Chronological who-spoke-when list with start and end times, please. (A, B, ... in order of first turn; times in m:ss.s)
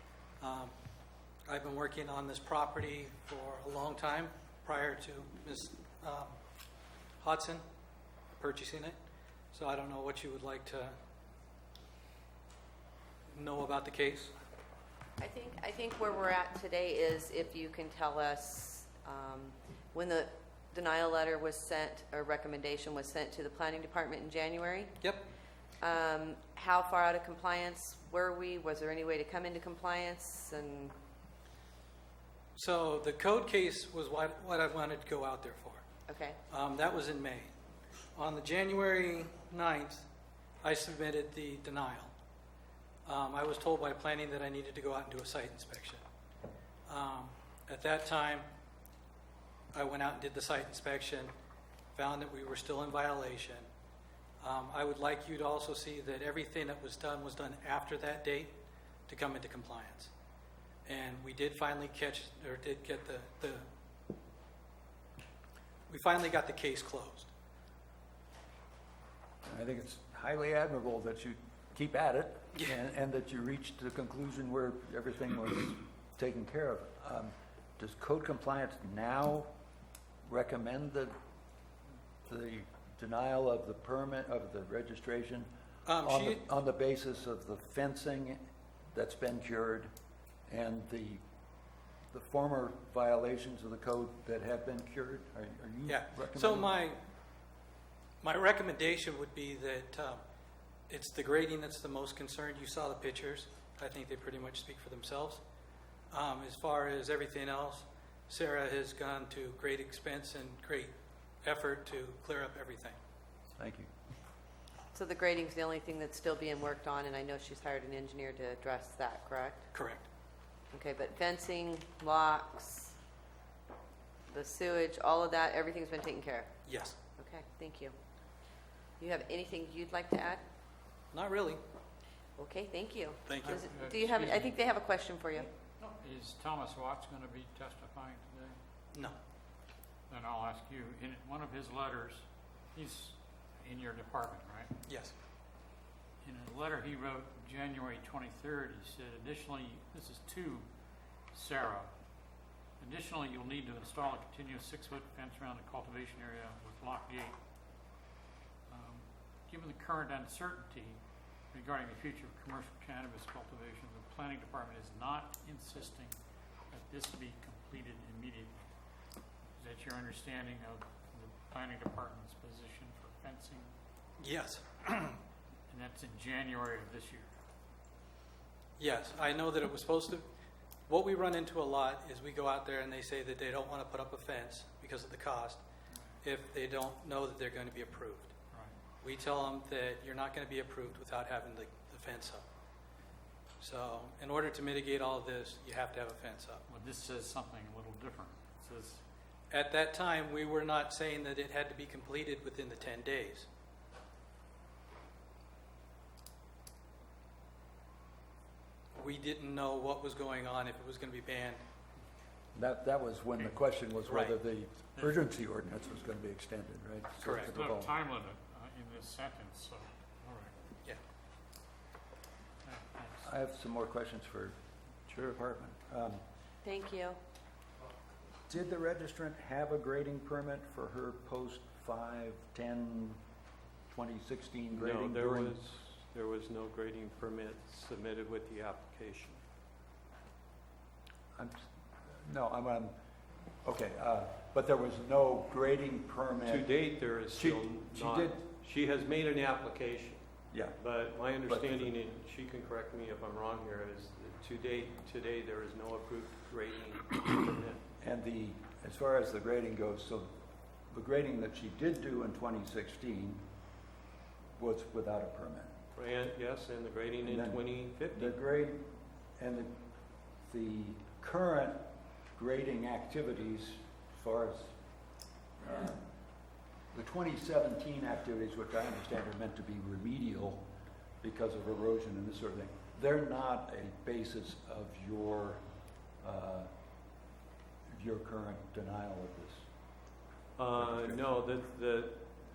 0:00.4-0:00.7 A
0:01.5-0:06.4 A
0:07.2-0:07.6 A
0:08.4-0:09.0 A
0:09.5-0:11.0 A
0:13.3-0:14.3 A
0:15.2-0:25.0 B
0:25.0-0:25.3 A
0:25.8-0:30.9 B
0:32.6-0:35.8 A
0:36.1-0:36.4 B
0:36.5-0:37.5 A
0:38.2-0:40.1 A
0:40.6-0:42.1 A
0:43.0-0:46.0 A
0:46.9-0:48.5 A
0:49.7-0:51.3 A
0:51.9-0:53.7 A
0:54.4-0:58.5 A
0:59.1-1:00.1 A
1:00.9-1:03.7 A
1:05.9-1:07.3 A
1:09.4-1:19.5 C
1:20.2-1:21.1 C
1:22.2-1:25.5 C
1:25.8-1:26.4 A
1:26.0-1:28.4 C
1:28.9-1:29.9 C
1:30.5-1:31.2 C
1:32.1-1:36.7 C
1:35.9-1:37.0 A
1:38.2-1:40.2 A
1:40.9-1:45.4 A
1:46.1-1:50.9 A
1:51.4-1:53.0 A
1:53.6-1:53.9 C
1:54.9-1:59.6 B
1:59.7-2:00.1 A
2:00.7-2:03.0 B
2:04.3-2:06.5 B
2:06.6-2:07.0 A
2:07.2-2:08.0 B
2:09.0-2:10.4 B
2:11.1-2:11.6 A
2:12.4-2:15.5 B
2:13.2-2:13.6 A
2:13.4-2:14.6 D
2:15.8-2:18.6 D
2:20.1-2:24.7 D
2:24.9-2:25.1 A
2:26.2-2:30.7 D
2:31.3-2:31.9 D
2:32.8-2:37.4 D
2:38.7-2:41.0 D
2:41.5-2:46.2 D
2:46.7-2:48.6 D
2:49.6-2:53.7 D
2:54.2-2:55.2 A
2:55.7-2:57.3 D
2:58.8-3:00.2 A
3:00.9-3:05.6 A
3:06.2-3:08.3 A
3:09.0-3:12.4 A
3:13.6-3:16.6 A
3:16.7-3:19.0 D
3:19.5-3:23.5 A
3:29.0-3:31.6 A
3:32.6-3:37.9 C
3:34.0-3:34.4 A
3:35.0-3:35.2 D
3:37.2-3:37.5 A
3:37.2-3:40.5 D
3:42.6-3:43.2 D
3:43.2-3:46.2 C
3:46.6-3:47.2 B
3:48.5-3:53.2 C
3:53.9-3:55.6 C
3:54.7-3:59.4 E
4:01.4-4:02.9 C
4:03.6-4:06.7 C
4:06.4-4:10.2 E
4:07.3-4:08.4 C
4:10.5-4:10.8 C
4:10.8-4:17.8 E
4:11.4-4:11.9 C
4:18.0-4:20.3 C
4:20.9-4:23.4 C
4:24.6-4:25.7 C
4:26.0-4:28.4 E
4:27.2-4:29.8 C
4:30.4-4:31.8 C
4:32.3-4:34.8 C
4:35.6-4:36.0 C
4:36.9-4:40.6 C
4:41.2-4:45.6 C
4:46.2-4:46.7 C
4:47.9-4:49.7 C
4:50.6-4:52.3 E
4:50.8-4:51.2 C